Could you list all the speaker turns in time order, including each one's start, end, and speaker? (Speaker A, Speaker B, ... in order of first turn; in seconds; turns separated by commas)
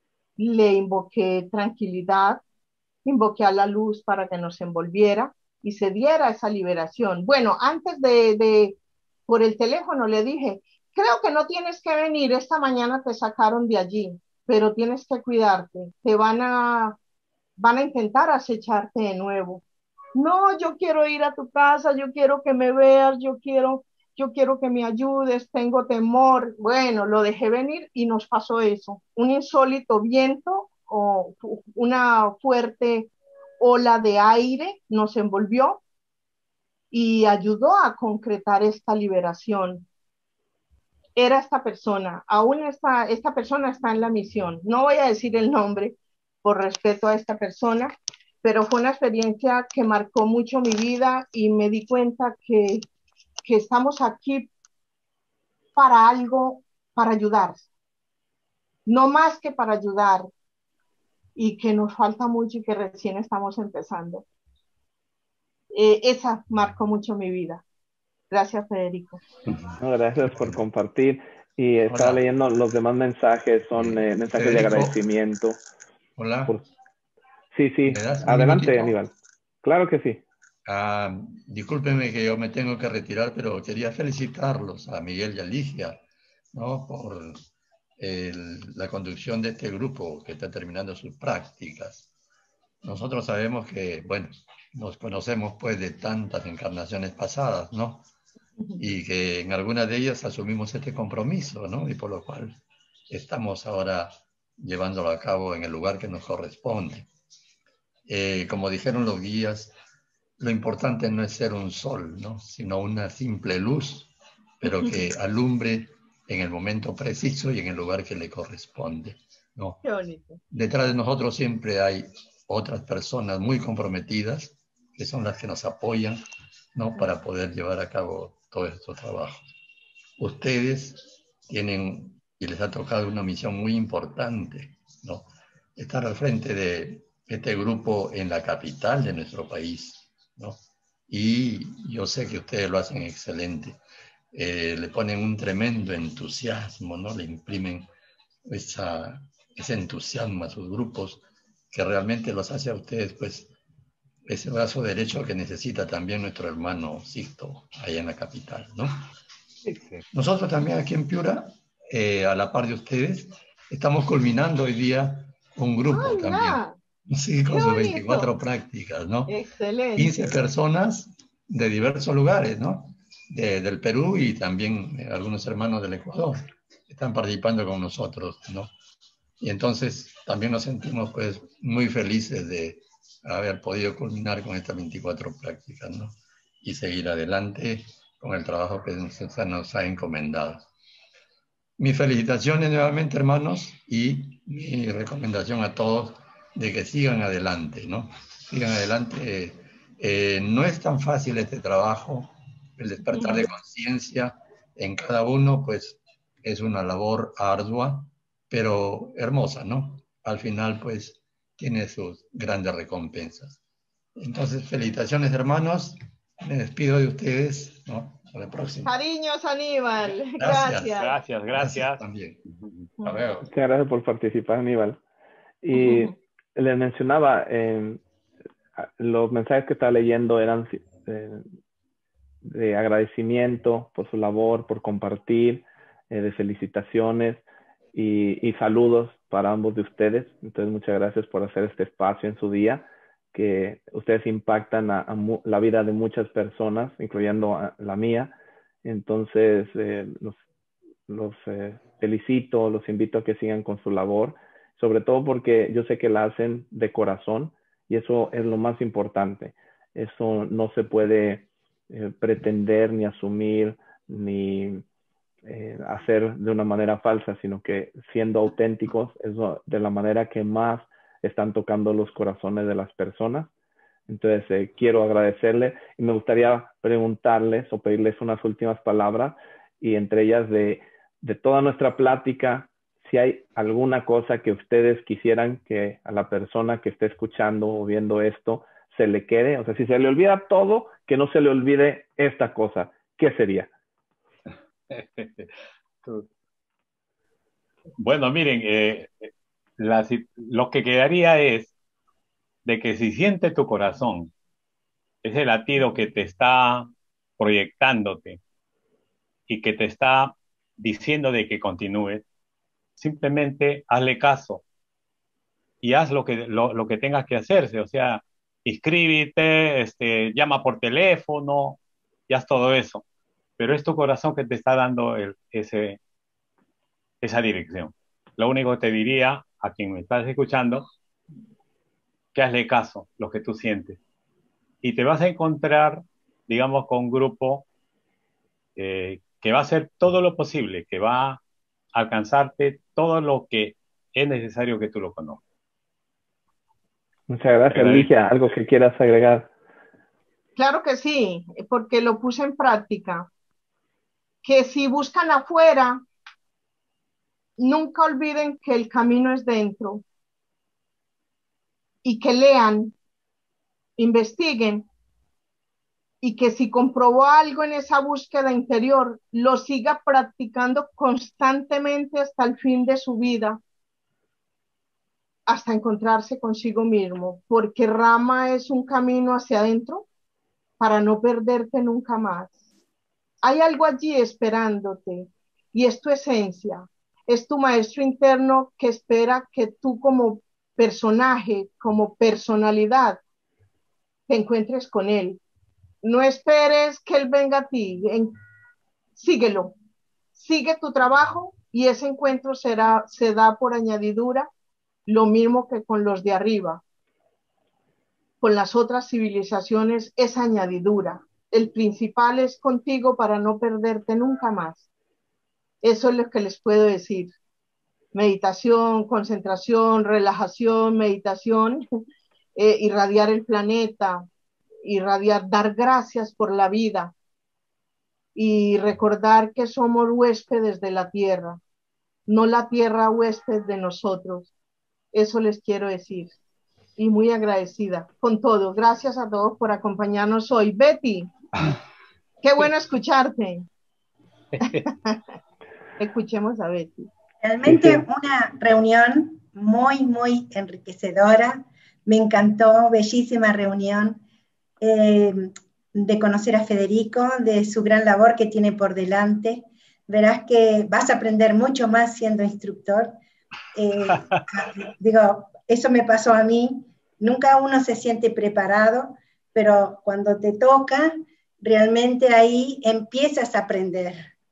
Speaker A: 0.4-2.4, Speaker A: 3.0-8.8, Speaker A: 9.3-17.0, Speaker A: 17.6-19.6, Speaker A: 20.1-35.8, Speaker A: 36.9-39.9, Speaker A: 41.1-52.9, Speaker A: 53.4-54.5, Speaker A: 55.8-57.6, Speaker A: 58.9-60.3, Speaker A: 61.4-64.2, Speaker A: 65.7-67.6, Speaker A: 68.3-69.2, Speaker B: 69.8-75.6, Speaker C: 70.3-70.6, Speaker C: 71.9-72.2, Speaker C: 73.7-75.0, Speaker C: 76.2-76.6, Speaker B: 77.5-79.1, Speaker C: 77.8-79.0, Speaker B: 79.6-80.2, Speaker C: 80.6-86.0, Speaker C: 86.5-87.4, Speaker C: 88.0-92.1, Speaker C: 92.8-98.0, Speaker C: 98.8-107.1, Speaker C: 108.1-109.7, Speaker C: 110.4-119.8, Speaker A: 119.8-120.4, Speaker C: 120.5-126.2, Speaker C: 126.7-129.4, Speaker C: 130.2-143.8, Speaker C: 144.3-147.9, Speaker C: 148.4-153.5, Speaker C: 154.3-159.0, Speaker C: 160.1-169.3, Speaker A: 165.9-166.7, Speaker A: 167.5-168.3, Speaker A: 169.3-170.1, Speaker C: 169.9-178.7, Speaker C: 179.4-190.7, Speaker C: 191.8-213.6, Speaker A: 203.1-203.4, Speaker C: 214.2-218.9, Speaker A: 218.8-221.1, Speaker C: 220.3-222.4, Speaker D: 221.0-222.0, Speaker C: 223.0-223.5, Speaker B: 223.4-225.0, Speaker B: 225.6-228.0, Speaker A: 225.8-226.1, Speaker B: 228.8-231.4, Speaker B: 232.4-237.4, Speaker B: 237.9-248.3, Speaker B: 248.8-250.4, Speaker B: 251.1-264.8, Speaker B: 265.4-273.5, Speaker B: 274.1-293.7, Speaker D: 294.9-295.5, Speaker D: 298.0-301.7, Speaker D: 302.6-304.3, Speaker D: 305.2-308.4, Speaker D: 309.5-312.2, Speaker D: 313.0-314.6, Speaker D: 315.8-321.8, Speaker D: 322.3-323.0, Speaker D: 323.6-326.0, Speaker D: 327.2-330.9, Speaker D: 332.4-334.0, Speaker D: 334.8-337.7, Speaker D: 338.8-341.4, Speaker D: 341.9-345.4, Speaker B: 347.3-349.5, Speaker D: 347.7-348.1, Speaker A: 350.6-353.3, Speaker A: 354.4-356.0, Speaker A: 357.6-360.0, Speaker A: 362.0-362.9, Speaker A: 364.0-364.9, Speaker A: 366.2-373.6, Speaker A: 375.5-380.1, Speaker A: 380.8-382.6, Speaker A: 383.4-393.2, Speaker A: 394.3-395.4, Speaker A: 396.0-398.4, Speaker A: 399.1-399.8, Speaker A: 400.4-404.5, Speaker A: 405.1-406.8, Speaker A: 408.4-414.9, Speaker A: 415.8-417.3, Speaker A: 418.1-421.8, Speaker A: 422.6-424.2, Speaker A: 424.8-427.1, Speaker A: 428.4-431.6, Speaker A: 432.3-434.5, Speaker A: 435.1-436.3, Speaker A: 437.0-441.3, Speaker A: 442.4-443.7, Speaker A: 444.6-445.2, Speaker A: 446.0-446.9, Speaker E: 447.4-454.2, Speaker B: 447.6-448.1, Speaker E: 454.8-463.1, Speaker E: 463.7-474.3